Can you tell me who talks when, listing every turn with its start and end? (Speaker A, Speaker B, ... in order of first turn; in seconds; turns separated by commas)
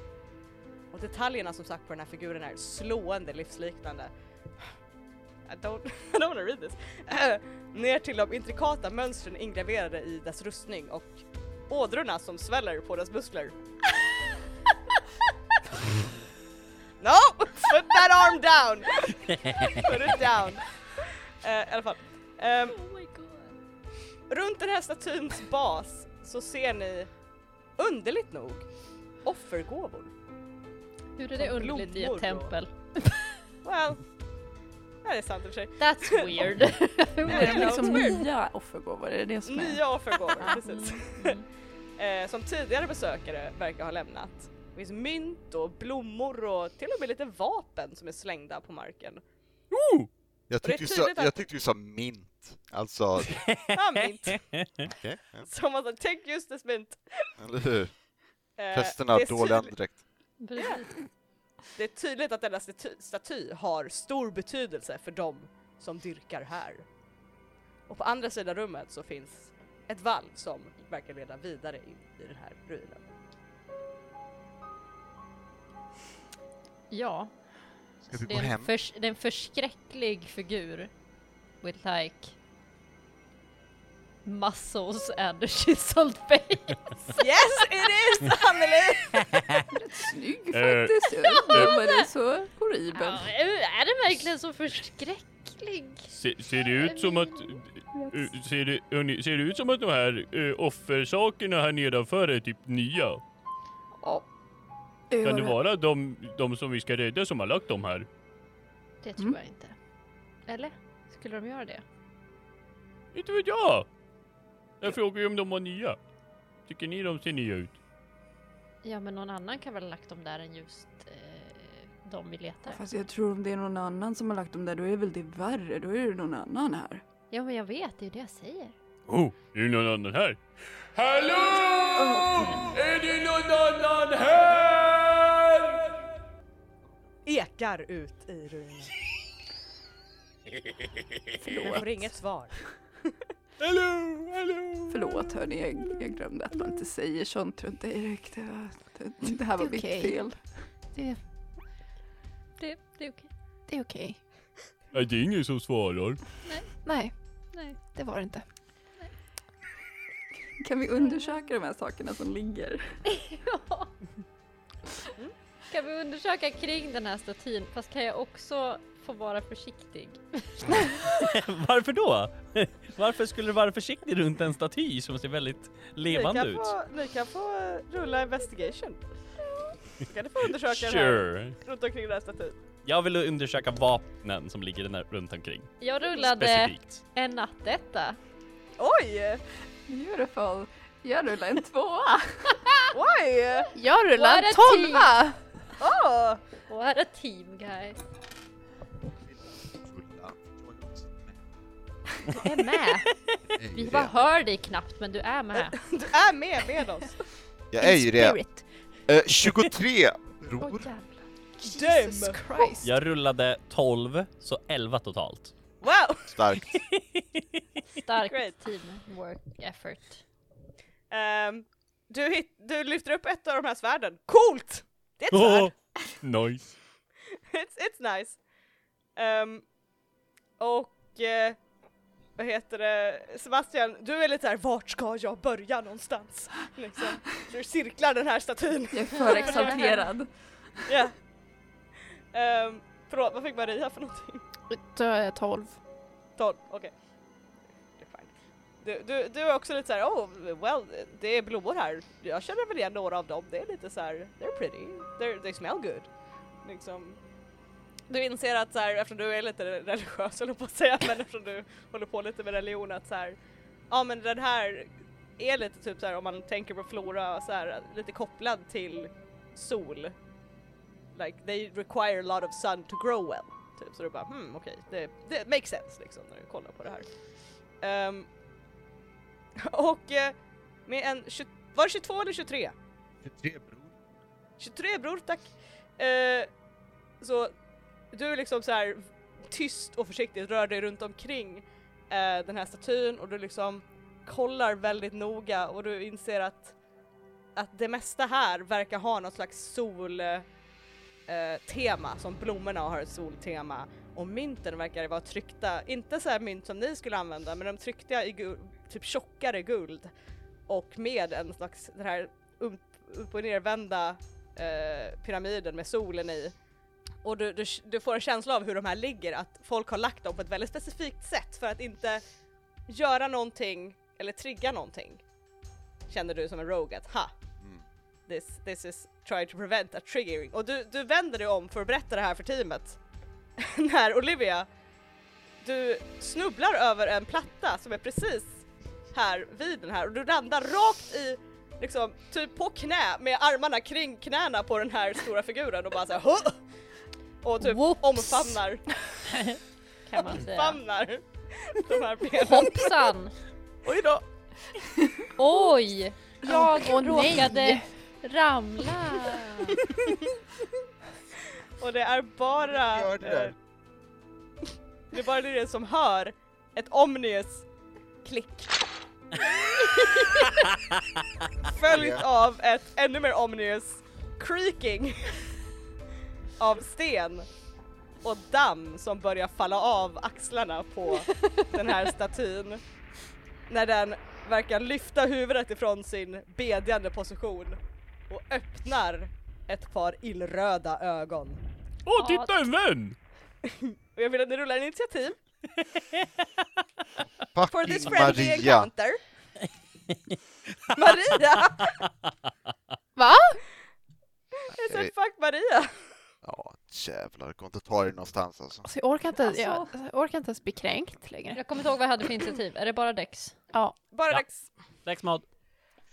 Speaker A: 0.9-4.1, Speaker A: 5.5-13.6, Speaker A: 17.0-22.8, Speaker B: 19.3-19.8, Speaker C: 22.7-23.6, Speaker A: 24.3-27.1, Speaker A: 27.8-28.7, Speaker A: 29.2-30.1, Speaker C: 31.2-33.3, Speaker A: 31.4-32.5, Speaker A: 33.6-34.0, Speaker A: 35.0-36.5, Speaker C: 35.8-38.2, Speaker A: 37.2-38.1, Speaker D: 37.3-39.9, Speaker A: 39.5-41.4, Speaker C: 40.4-41.5, Speaker A: 42.0-49.2, Speaker E: 49.7-50.1, Speaker F: 50.5-53.4, Speaker A: 50.6-51.4, Speaker B: 53.4-53.8, Speaker A: 53.8-54.5, Speaker B: 54.3-54.9, Speaker F: 54.9-55.5, Speaker A: 55.4-57.2, Speaker F: 57.4-57.9, Speaker A: 58.6-59.7, Speaker F: 58.7-60.0, Speaker C: 60.4-60.9, Speaker A: 60.6-60.8, Speaker A: 61.8-66.9, Speaker A: 67.9-73.0, Speaker C: 76.9-77.3, Speaker C: 78.0-80.9, Speaker F: 78.1-78.7, Speaker C: 81.6-82.3, Speaker C: 84.2-87.2, Speaker A: 87.2-89.2, Speaker B: 89.3-89.6, Speaker D: 89.7-93.3, Speaker E: 90.5-91.7, Speaker C: 91.2-92.1, Speaker C: 92.9-97.6, Speaker E: 96.1-103.2, Speaker C: 104.0-104.3, Speaker D: 105.1-105.6, Speaker E: 105.2-108.1, Speaker C: 109.0-109.8, Speaker C: 110.5-111.8, Speaker E: 113.1-113.9, Speaker E: 114.8-116.0, Speaker E: 116.7-117.8, Speaker C: 118.8-122.8, Speaker D: 122.7-127.0, Speaker C: 127.3-128.8, Speaker E: 129.1-130.4, Speaker E: 130.9-135.9, Speaker D: 131.9-132.8, Speaker A: 137.2-138.9, Speaker D: 141.5-141.9, Speaker A: 141.5-142.6, Speaker E: 143.6-145.1, Speaker D: 144.9-150.4, Speaker G: 149.6-150.2, Speaker G: 150.9-151.2, Speaker C: 152.6-153.3, Speaker G: 153.7-154.2, Speaker E: 154.9-156.2, Speaker G: 156.8-157.1, Speaker G: 157.9-158.4, Speaker D: 160.6-162.9, Speaker C: 163.1-163.9, Speaker C: 165.7-171.0, Speaker B: 171.2-176.7, Speaker A: 176.1-179.0, Speaker A: 180.0-182.6, Speaker B: 180.7-181.6, Speaker B: 182.8-187.0, Speaker C: 185.8-188.2, Speaker A: 188.8-189.4, Speaker D: 189.9-192.5, Speaker A: 192.9-193.7, Speaker G: 193.7-195.4, Speaker C: 194.1-195.1, Speaker A: 195.8-196.4, Speaker C: 196.7-198.0, Speaker F: 199.7-201.4, Speaker C: 202.4-203.1, Speaker F: 203.6-204.2, Speaker C: 203.7-205.8, Speaker A: 205.5-207.2, Speaker F: 207.7-208.4, Speaker G: 207.8-208.7, Speaker F: 209.1-210.9, Speaker G: 210.6-212.9, Speaker A: 211.6-212.4, Speaker B: 212.8-215.5, Speaker A: 215.8-216.4, Speaker F: 216.3-216.8, Speaker B: 216.9-217.4, Speaker C: 218.0-220.2, Speaker A: 218.3-218.5, Speaker A: 221.1-225.7, Speaker E: 225.3-225.7, Speaker E: 226.2-226.7, Speaker A: 227.5-228.4, Speaker A: 229.2-229.6, Speaker A: 230.6-231.6, Speaker A: 232.4-240.0, Speaker D: 238.9-240.3, Speaker C: 239.3-239.9, Speaker A: 240.9-241.2, Speaker A: 242.3-244.4, Speaker G: 244.7-245.8, Speaker A: 246.4-246.9, Speaker A: 248.0-248.3, Speaker A: 248.8-256.1, Speaker A: 256.6-257.2, Speaker A: 258.1-263.4, Speaker A: 263.9-270.1, Speaker A: 271.1-277.1, Speaker A: 277.8-278.3, Speaker A: 279.6-280.4, Speaker A: 280.9-282.8, Speaker F: 283.2-283.9, Speaker A: 284.6-286.5, Speaker A: 287.2-287.5, Speaker A: 288.1-296.8, Speaker A: 297.6-300.5, Speaker A: 301.3-310.1, Speaker A: 310.7-316.5, Speaker A: 317.2-322.2, Speaker A: 322.9-325.2, Speaker A: 326.1-327.3, Speaker A: 328.3-333.0, Speaker A: 333.6-334.7, Speaker A: 335.6-346.6, Speaker A: 347.4-348.9, Speaker C: 347.6-348.6, Speaker C: 349.3-350.8, Speaker A: 350.2-352.9, Speaker C: 352.3-353.3, Speaker A: 353.9-354.2, Speaker C: 355.4-359.8, Speaker G: 356.5-357.9, Speaker A: 361.8-363.5, Speaker F: 362.8-363.6, Speaker A: 365.1-367.7, Speaker A: 368.2-368.9, Speaker A: 369.7-370.6, Speaker A: 371.7-375.4, Speaker F: 371.9-372.2, Speaker A: 376.6-377.5, Speaker A: 378.2-382.8, Speaker A: 383.7-391.6, Speaker E: 392.1-393.2, Speaker C: 392.2-392.7, Speaker A: 393.6-395.4, Speaker F: 397.5-398.9, Speaker A: 397.7-399.2, Speaker B: 400.9-402.1, Speaker A: 401.0-402.0, Speaker G: 403.2-403.6, Speaker A: 404.7-406.1, Speaker F: 404.7-405.1, Speaker F: 406.4-408.9, Speaker G: 408.9-411.6, Speaker C: 411.5-413.6, Speaker A: 414.1-414.7, Speaker B: 415.1-415.4